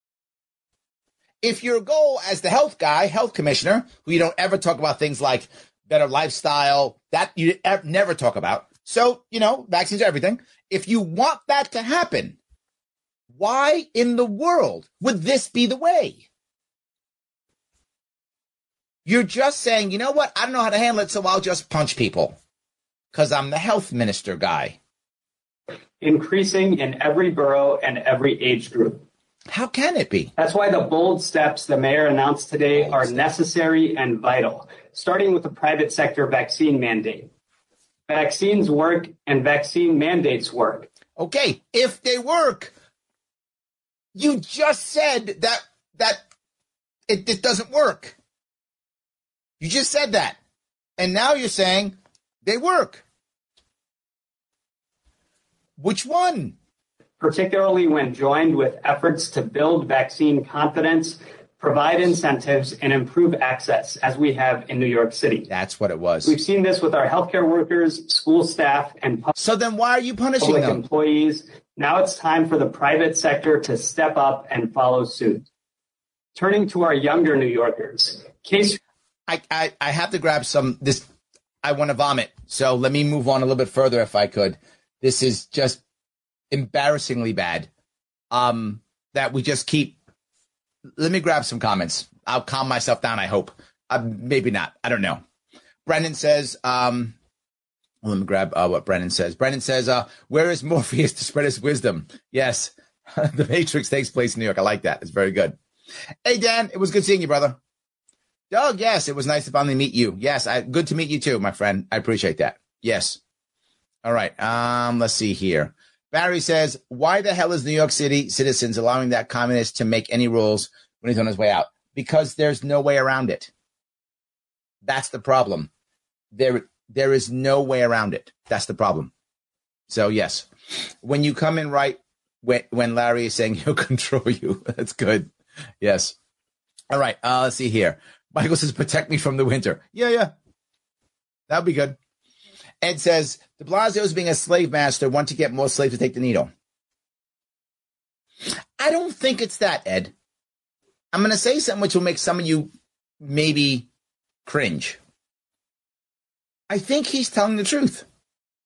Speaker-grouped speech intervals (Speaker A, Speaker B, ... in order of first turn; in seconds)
Speaker A: 1.4-12.4, 13.3-16.2, 19.0-22.4, 23.1-24.8, 29.5-30.3, 32.7-33.2, 41.2-42.7, 44.1-46.2, 47.1-48.1, 49.6-50.4, 51.0-53.0, 55.8-56.5, 65.5-66.3, 69.4-70.8, 79.3-81.0, 81.6-85.8, 86.5-87.7, 88.3-90.0, 91.0-95.2, 95.8-97.1, 98.0-105.6, 106.2-107.6, 108.5-113.2, 114.0-123.5, 124.8-125.7, 126.3-129.1, 129.9-135.3, 135.8-136.1, 136.9-140.3, 141.5-142.0, 142.8-146.5, 148.8-150.1, 151.1-152.7, 153.2-153.9, 154.4-155.0, 156.7-158.1
Speaker B: 26.0-29.0, 30.4-37.3, 38.1-40.9, 57.2-65.5, 66.2-69.3, 70.4-75.4, 76.3-78.8